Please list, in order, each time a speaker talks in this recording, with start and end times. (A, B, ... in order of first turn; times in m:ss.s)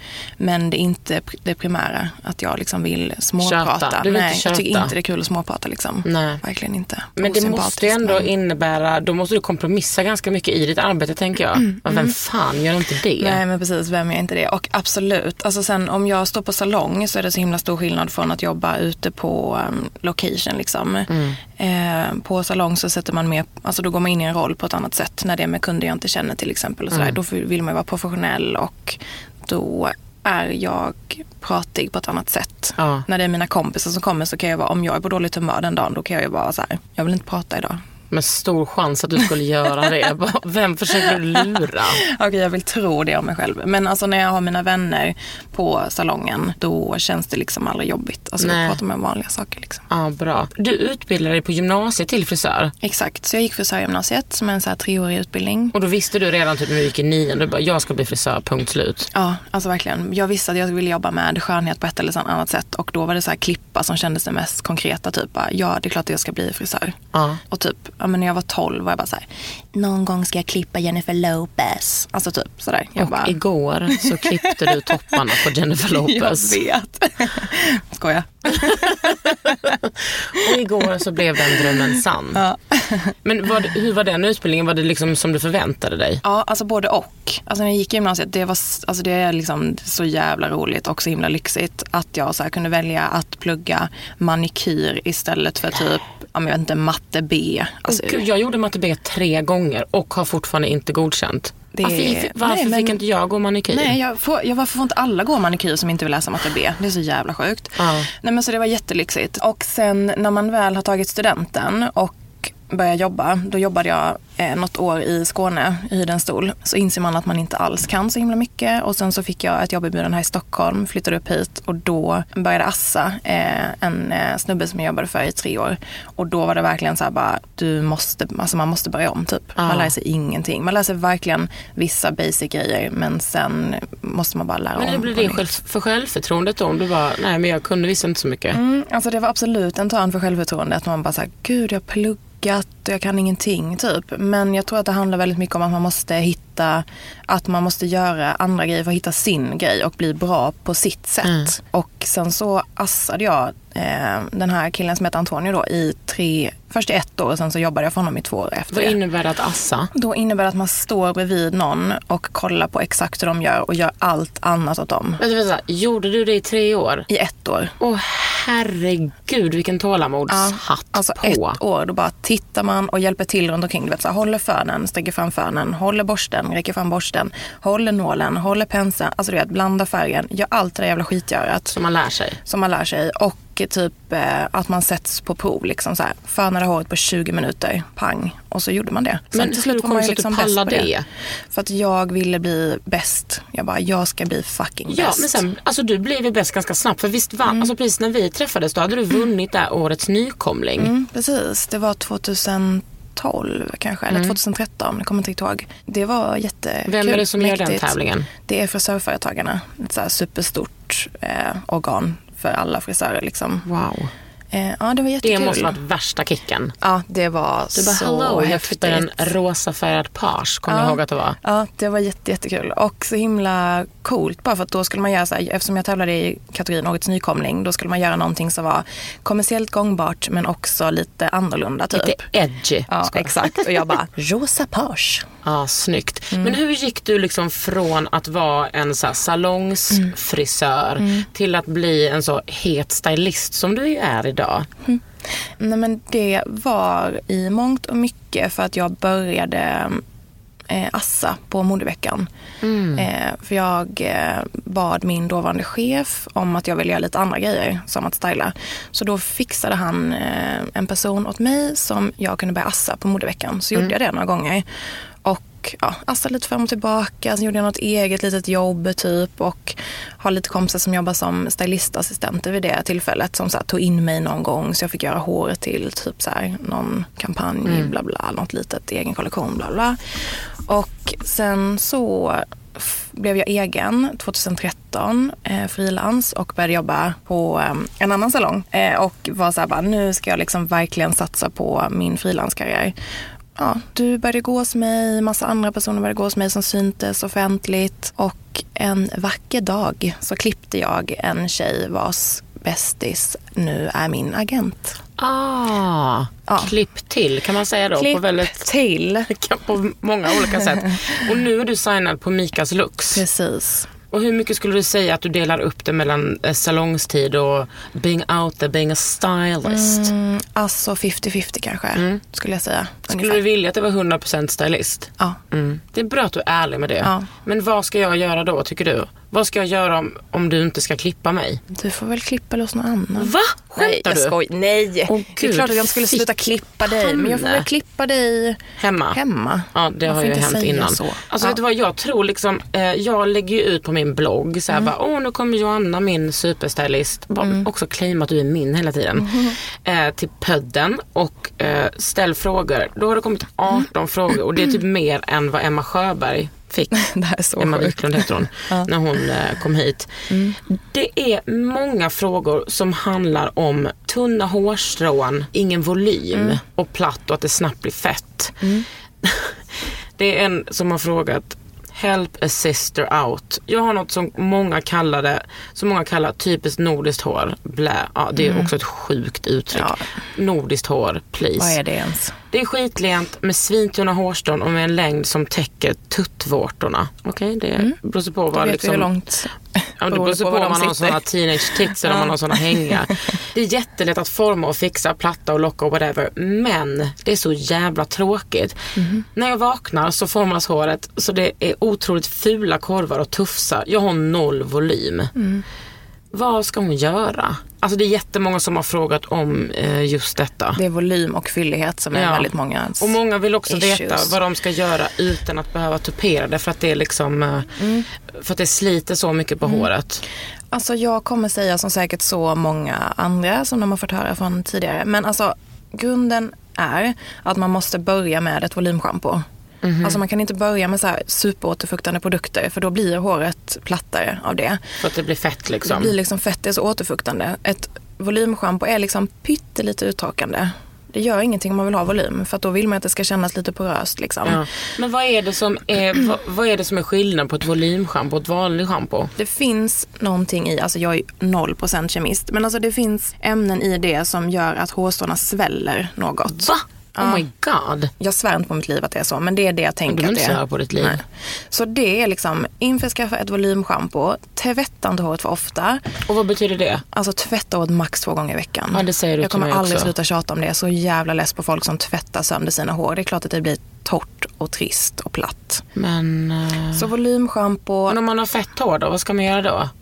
0:00.4-0:08.3 A
0:03.4-0:04.9 B
0:06.0-0:06.4 B
0:07.2-0:13.4 B
0:11.5-0:12.1 A
0:13.2-0:37.8 A
0:21.1-0:21.4 B
0:32.8-0:33.0 B
0:38.1-0:42.0 B
0:40.9-0:49.8 A
0:48.4-0:48.8 B
0:49.9-0:52.7 B
0:52.8-0:55.7 A
0:55.7-0:59.1 B
0:59.1-1:07.0 A
1:07.1-1:07.4 B
1:07.5-1:13.4 A
1:13.0-1:16.6 B
1:13.9-1:15.3 A
1:15.9-1:19.5 A
1:18.5-1:22.4 B
1:21.4-1:23.1 A
1:23.2-1:26.2 B
1:26.2-1:38.2 A
1:37.9-1:44.0 B
1:41.7-1:43.0 A
1:43.7-2:15.4 A
1:47.8-1:48.1 B
2:09.6-2:09.9 B
2:14.8-2:18.6 B
2:18.5-2:39.0 A
2:31.2-2:31.5 B
2:38.7-2:39.9 B
2:39.9-2:45.2 A
2:45.2-2:47.1 B
2:47.1-2:47.7 A
2:47.8-2:51.6 B
2:50.3-3:01.8 A
3:01.7-3:02.4 B
3:02.4-3:10.9 A
3:09.3-3:11.0 B
3:11.5-3:15.4 A
3:14.9-3:20.9 B
3:17.4-3:17.7 A
3:20.8-3:33.6 A
3:24.1-3:24.3 B
3:26.9-3:28.3 B
3:33.6-3:34.1 B
3:34.5-3:35.8 A
3:35.2-3:36.7 B
3:36.8-3:39.3 A
3:37.7-3:41.4 B
3:40.7-3:52.2 A
3:51.9-3:53.9 B
3:52.9-3:55.3 A
3:55.4-4:04.7 B
3:56.3-3:56.6 A
4:01.0-4:01.3 A
4:04.8-4:10.0 A
4:10.7-4:12.3 A
4:12.6-4:13.1 B
4:12.9-4:24.7 A
4:25.2-4:53.0 A
4:37.6-4:37.9 B
4:53.6-5:05.0 A
5:05.2-5:08.6 B
5:06.5-5:06.7 A
5:07.9-5:09.3 A
5:09.3-5:13.2 B
5:10.3-5:11.0 A
5:13.1-5:13.9 A
5:14.1-5:20.1 B
5:19.6-5:23.4 A
5:22.0-5:22.2 B
5:23.1-5:31.6 B
5:27.0-5:27.3 A
5:31.7-5:38.6 A
5:33.2-5:34.3 B
5:35.1-5:37.7 B
5:38.8-5:39.2 B
5:39.1-5:41.6 A
5:39.7-5:57.0 B
5:47.4-5:47.7 A
5:49.2-5:49.6 A
5:57.0-5:58.9 A
5:57.6-6:08.6 B
6:00.3-6:00.6 A
6:06.3-6:06.6 A
6:08.6-6:08.9 A
6:09.2-6:09.6 B
6:10.2-6:21.8 B
6:18.4-6:18.7 A
6:19.7-6:20.1 A
6:21.6-6:22.4 A
6:22.5-6:29.1 B
6:28.5-6:33.3 A
6:30.0-6:38.8 B
6:39.0-6:39.2 A
6:39.3-6:45.3 B
6:45.3-6:45.6 A
6:46.3-6:50.8 B
6:50.7-6:54.4 A
6:52.1-6:57.8 B
6:57.8-6:58.1 A
6:58.3-7:00.2 B
7:00.7-7:09.4 A
7:09.8-7:10.2 B
7:10.0-7:14.8 A
7:15.0-7:16.1 B
7:15.8-7:24.6 A
7:24.4-7:29.3 B
7:29.4-7:37.4 A
7:36.5-7:38.1 B
7:38.2-7:46.0 A
7:40.1-7:41.2 B
7:46.2-7:47.0 B
7:47.1-7:55.8 A
7:48.9-7:50.1 B
7:56.0-7:57.1 B
7:56.9-7:58.2 A
7:58.1-7:59.9 B